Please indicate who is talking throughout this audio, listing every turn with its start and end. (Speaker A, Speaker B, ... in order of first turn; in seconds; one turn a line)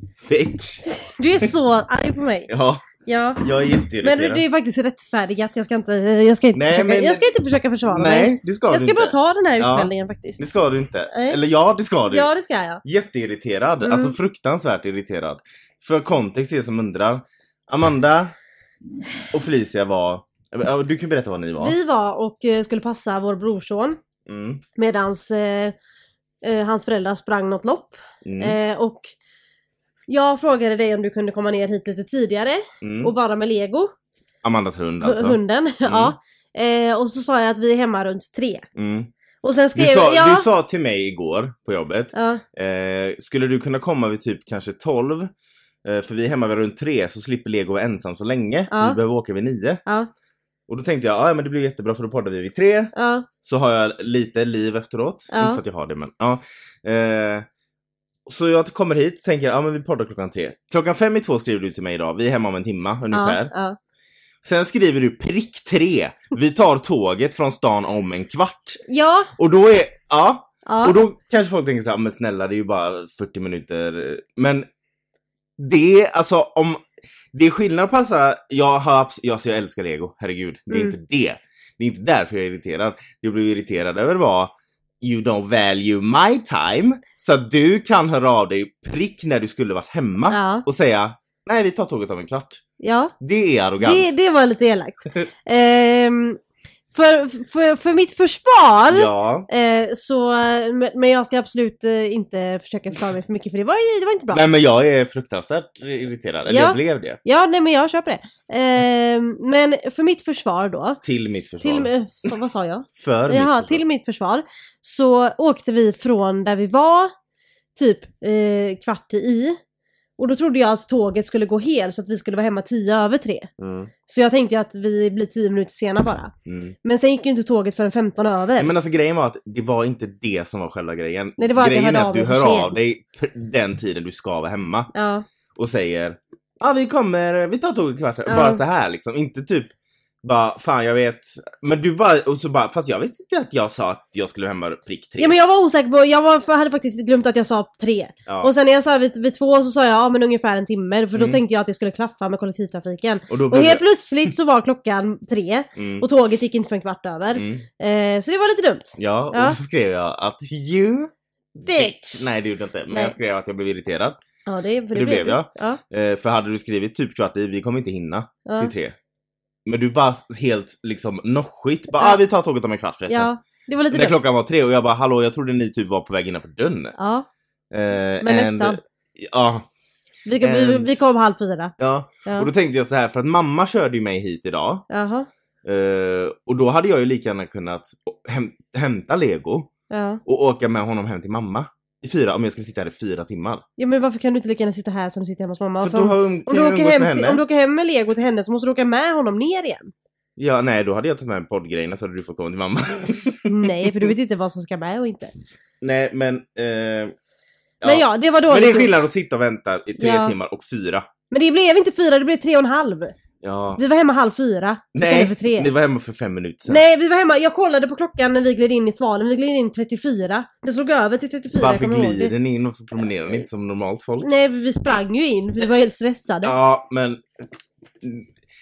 Speaker A: 0.3-1.5
Speaker B: 1.1-2.5
Speaker A: 2.5-2.9
Speaker B: 3.0-10.4
Speaker A: 3.4-4.4
Speaker A: 6.5-7.2
Speaker A: 7.8-12.3
Speaker B: 11.1-11.4
Speaker B: 12.1-12.8
Speaker A: 12.8-18.3
Speaker B: 13.8-14.1
Speaker A: 19.3-21.8
Speaker B: 21.6-24.0
Speaker A: 24.2-24.6
Speaker B: 24.8-25.7
Speaker B: 26.4-29.1
Speaker A: 28.2-28.6
Speaker B: 30.1-33.9
Speaker A: 32.8-33.1
Speaker A: 34.4-36.1
Speaker B: 35.0-38.7
Speaker A: 38.7-39.1
Speaker B: 39.4-40.5
Speaker A: 39.7-45.3
Speaker B: 42.1-42.4
Speaker A: 45.8-49.8
Speaker B: 48.7-49.0
Speaker A: 50.7-57.5
Speaker B: 52.9-53.3
Speaker B: 55.3-55.6
Speaker A: 58.2-63.5
Speaker B: 63.1-63.8
Speaker A: 64.4-68.8
Speaker B: 68.9-69.3
Speaker A: 69.3-74.7
Speaker B: 70.7-71.0
Speaker A: 75.6-92.6
Speaker B: 80.7-80.9
Speaker B: 90.3-90.6
Speaker B: 92.8-93.1
Speaker A: 93.2-94.1
Speaker B: 93.8-96.4
Speaker B: 96.9-104.4
Speaker A: 98.9-99.5
Speaker A: 104.3-107.2
Speaker B: 106.5-111.0
Speaker A: 111.0-111.9
Speaker B: 111.6-117.1
Speaker A: 113.0-113.8
Speaker B: 117.7-119.6
Speaker B: 120.2-123.5
Speaker A: 123.6-123.9
Speaker B: 124.0-126.3
Speaker A: 126.5-126.7
Speaker B: 126.8-128.7
Speaker A: 128.6-134.9
Speaker B: 131.4-132.8
Speaker B: 134.9-135.2
Speaker A: 135.5-145.3
Speaker B: 138.2-138.6
Speaker B: 145.2-159.6
Speaker A: 151.1-151.4
Speaker A: 153.3-153.8
Speaker A: 155.8-156.1
Speaker A: 157.3-157.7
Speaker A: 159.0-164.2
Speaker B: 161.7-162.3
Speaker B: 164.4-165.8
Speaker A: 164.9-168.9
Speaker B: 168.4-168.7
Speaker A: 169.7-173.3
Speaker B: 173.1-174.2
Speaker A: 173.9-176.9
Speaker B: 177.0-177.3
Speaker A: 177.7-179.7
Speaker B: 178.2-178.8
Speaker B: 180.2-181.7
Speaker A: 180.4-181.0
Speaker A: 181.8-184.8
Speaker B: 182.2-182.5
Speaker B: 184.9-185.3
Speaker A: 185.6-189.7
Speaker B: 189.9-190.2
Speaker A: 190.2-193.6
Speaker B: 193.8-199.9
Speaker A: 195.8-197.4
Speaker A: 200.4-204.1
Speaker B: 203.5-205.3
Speaker A: 205.8-207.1
Speaker A: 207.8-211.1
Speaker B: 207.8-208.9
Speaker B: 210.0-210.3
Speaker B: 211.3-213.1
Speaker A: 213.4-213.8
Speaker B: 213.8-215.7
Speaker A: 214.9-216.8
Speaker B: 216.7-222.3
Speaker A: 221.5-224.3
Speaker B: 224.2-226.5
Speaker A: 226.4-227.2
Speaker A: 228.0-228.3